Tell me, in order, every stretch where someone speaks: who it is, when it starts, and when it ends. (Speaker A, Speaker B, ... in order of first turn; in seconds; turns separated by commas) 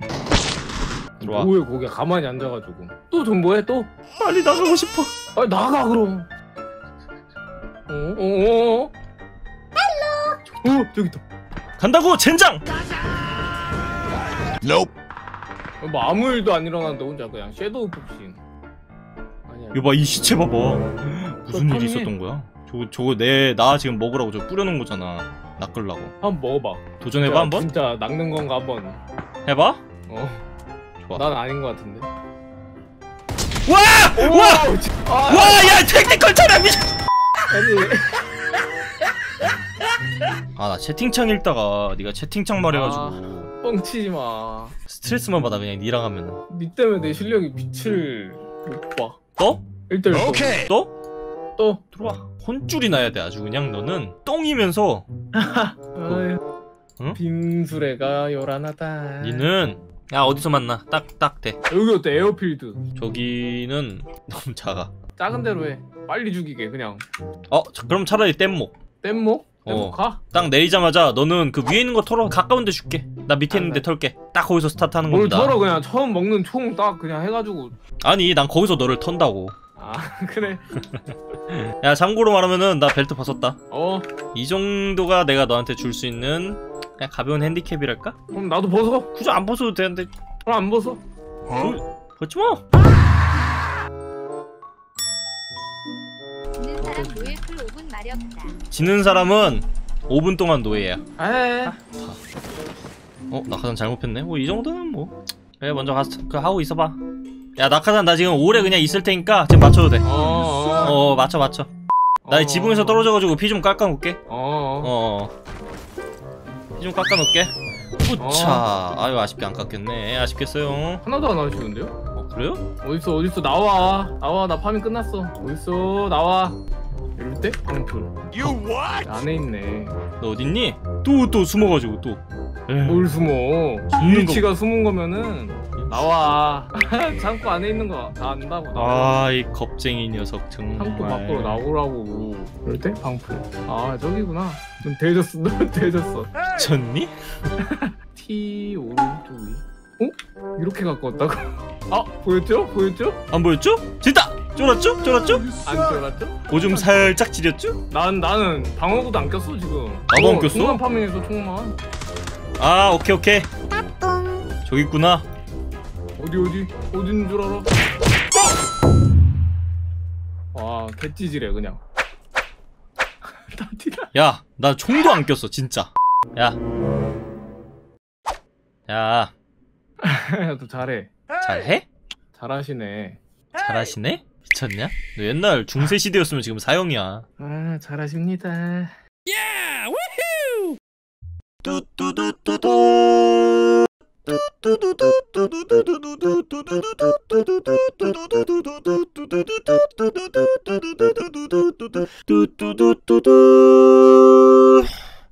Speaker A: 1.2-3.9, Speaker B: 1.2-1.5, Speaker B: 4.2-5.1, Speaker A: 5.4-6.3, Speaker A: 7.9-8.9, Speaker A: 10.6-11.2, Speaker B: 11.8-12.6, Speaker A: 15.8-18.4, Speaker A: 19.5-19.9, Speaker B: 19.7-26.1, Speaker A: 21.5-22.1, Speaker A: 26.2-29.0, Speaker B: 27.0-27.7, Speaker B: 29.4-29.8, Speaker A: 30.1-30.4, Speaker B: 31.0-31.3, Speaker A: 31.1-32.1, Speaker B: 33.7-34.7, Speaker A: 34.1-35.8, Speaker B: 35.2-36.9, Speaker A: 37.5-38.2, Speaker B: 40.6-43.5, Speaker A: 42.6-44.8, Speaker B: 44.9-46.4, Speaker A: 46.5-49.2, Speaker B: 49.4-49.6, Speaker A: 49.9-50.7, Speaker B: 50.6-50.9, Speaker A: 51.6-51.8, Speaker B: 51.9-55.1, Speaker A: 55.4-56.4, Speaker A: 57.1-59.5, Speaker B: 59.2-61.6, Speaker A: 61.7-62.8, Speaker B: 63.0-64.9, Speaker A: 65.2-67.0, Speaker B: 67.5-68.7, Speaker A: 69.0-70.2, Speaker B: 69.7-75.6, Speaker A: 73.5-73.9, Speaker A: 75.1-77.8, Speaker B: 78.0-79.5, Speaker A: 79.8-80.7, Speaker B: 81.5-83.6, Speaker A: 83.7-84.1, Speaker B: 84.3-88.2, Speaker A: 88.3-89.1, Speaker B: 89.1-90.1, Speaker A: 90.4-91.0, Speaker B: 91.5-92.6, Speaker C: 96.6-98.6, Speaker B: 98.7-101.0, Speaker A: 101.2-101.8, Speaker B: 101.7-102.2, Speaker B: 103.3-107.0, Speaker B: 107.6-110.1, Speaker A: 110.0-111.0, Speaker B: 110.8-111.7, Speaker A: 112.2-113.1, Speaker B: 112.3-114.2, Speaker A: 114.3-114.9, Speaker B: 114.8-115.3, Speaker B: 116.8-121.0, Speaker A: 118.2-118.7, Speaker A: 121.0-121.9, Speaker B: 122.2-122.6, Speaker A: 122.8-126.6, Speaker A: 127.2-130.0, Speaker B: 130.2-133.1, Speaker A: 132.8-139.2, Speaker B: 133.9-134.5, Speaker B: 135.8-136.1, Speaker B: 138.7-141.6, Speaker A: 140.8-146.3, Speaker B: 146.5-147.1, Speaker A: 147.6-153.2, Speaker B: 153.3-155.5, Speaker A: 155.6-157.2, Speaker B: 156.5-157.8, Speaker A: 157.9-161.8, Speaker B: 160.1-160.8, Speaker B: 162.6-163.5, Speaker B: 164.7-165.3, Speaker A: 166.2-167.7, Speaker A: 170.5-171.8, Speaker A: 173.5-174.1, Speaker B: 174.1-176.6, Speaker B: 178.9-179.3, Speaker A: 180.0-181.1, Speaker B: 181.4-181.9, Speaker A: 182.3-183.2, Speaker B: 183.6-187.3, Speaker A: 187.4-188.9, Speaker B: 191.6-193.7, Speaker B: 194.3-203.6